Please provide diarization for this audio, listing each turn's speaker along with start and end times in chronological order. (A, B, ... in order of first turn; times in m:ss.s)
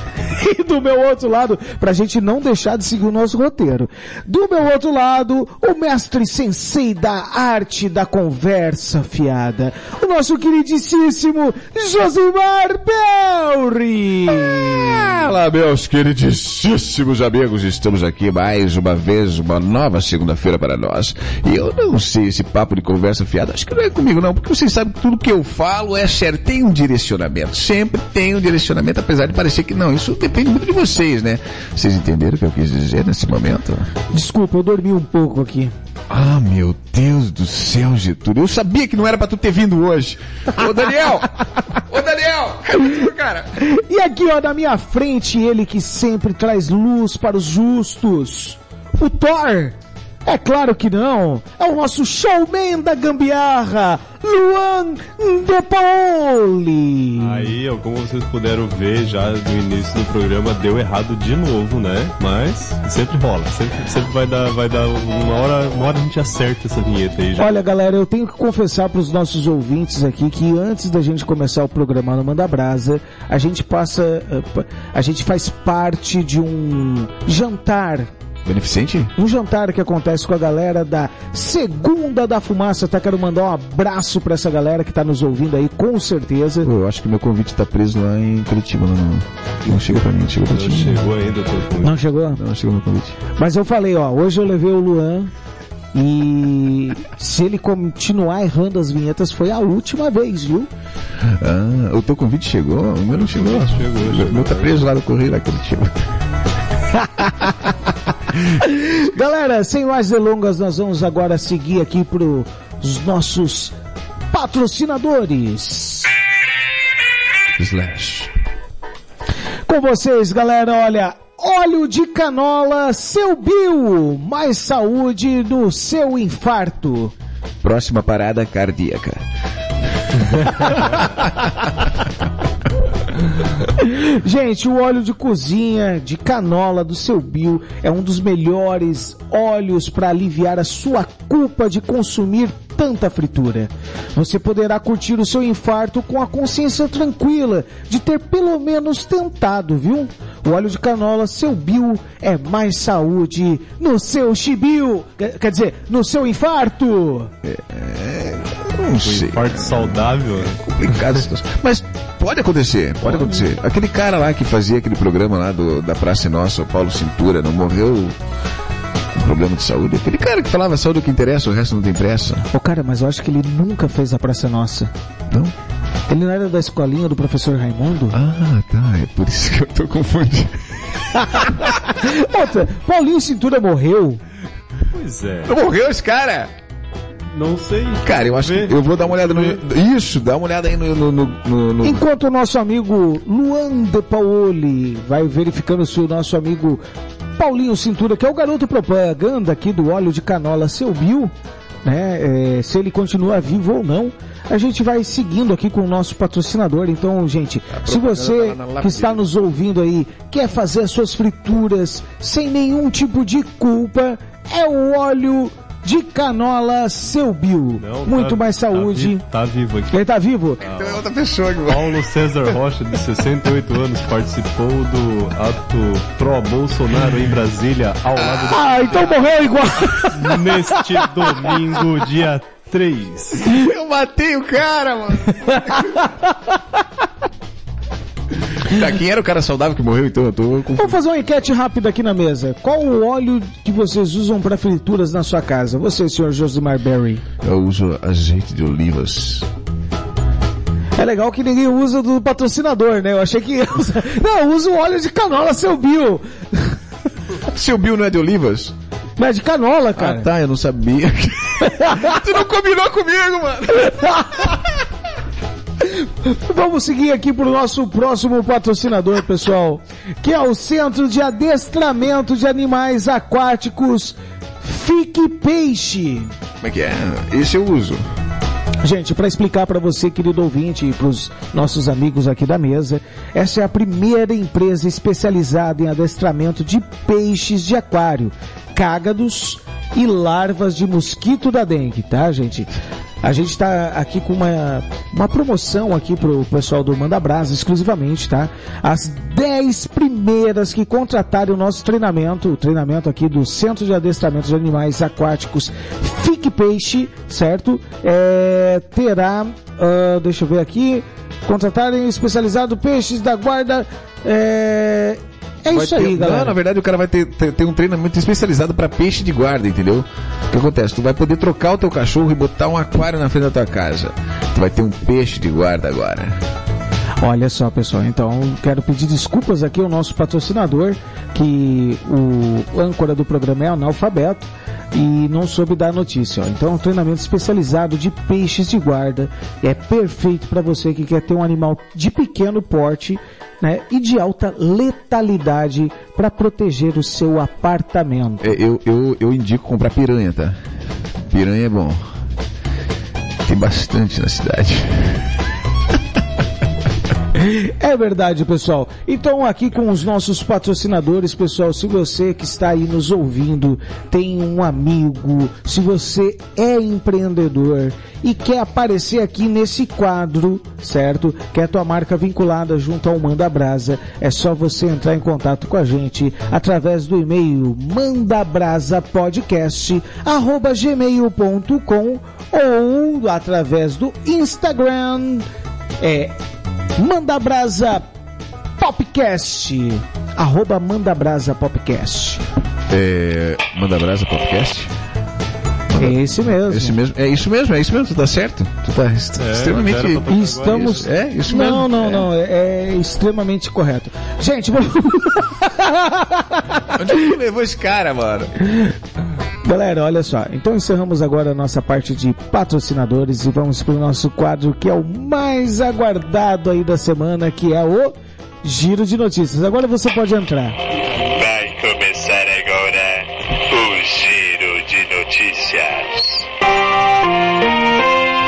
0:00.3-0:15.2 A
0:14.6-0:33.9 B
0:34.1-0:35.7 A
0:36.1-0:43.6 B
0:43.6-0:57.5 A
0:57.2-1:07.5 C
1:07.4-1:18.1 A
1:18.4-1:19.1 B
1:19.2-1:26.7 A
1:26.6-1:31.1 B
1:29.7-1:32.0 C
1:31.8-1:32.4 A
1:32.4-1:33.2 B
1:33.3-1:35.3 A
1:35.9-1:40.7 A
1:41.2-1:46.0 B
1:43.2-1:44.9 C
1:46.9-1:47.7 A
1:48.4-1:53.7 A
1:54.3-1:56.1 A
1:57.6-1:58.3 B
1:59.7-2:07.1 A
2:07.6-2:09.2 B
2:10.5-2:11.5 B
2:13.6-2:37.3 A
2:37.4-2:48.2 B
2:39.0-2:40.6 C
2:49.1-2:52.5 B
2:52.5-2:54.9 A
2:56.1-2:58.2 A
2:58.1-3:01.8 B
3:01.3-3:04.2 A
3:04.9-3:05.6 C
3:05.5-3:06.5 B
3:07.3-3:09.6 C
3:08.0-3:12.0 B
3:11.8-3:16.8 A
3:17.4-3:21.3 A
3:21.8-3:39.2 A
3:27.7-3:29.3 B
3:37.8-3:40.0 C
3:39.9-3:40.6 A
3:40.6-3:41.0 C
3:40.6-3:42.0 B
3:41.7-3:49.2 C
3:48.2-3:48.9 B
3:48.5-3:51.8 A
3:50.0-3:53.5 C
3:53.4-3:56.1 B
3:55.4-3:56.3 A
3:58.6-4:01.0 B
4:00.8-4:07.2 A
4:07.4-4:09.5 B
4:11.0-4:16.8 A
4:17.4-4:18.8 B
4:19.2-4:20.3 A
4:20.0-4:24.7 B
4:21.6-4:22.2 A
4:24.0-4:24.3 A
4:25.8-4:36.3 A
4:36.6-4:38.0 B
4:38.8-5:16.6 A
5:15.7-5:26.4 B
5:27.2-5:48.6 A
5:48.4-5:50.6 B
5:51.3-5:52.1 B
5:53.4-5:55.3 B
5:57.4-6:25.5 A
6:26.0-6:26.4 A
6:27.0-6:28.0 A
6:28.8-6:32.4 A
6:32.9-6:34.9 B
6:35.9-6:42.3 B
6:36.0-6:37.0 A
6:39.4-6:41.1 C
6:40.3-6:47.0 A
6:46.9-6:48.6 B
6:48.6-6:48.9 A
6:49.6-7:00.8 A
7:01.1-7:06.5 D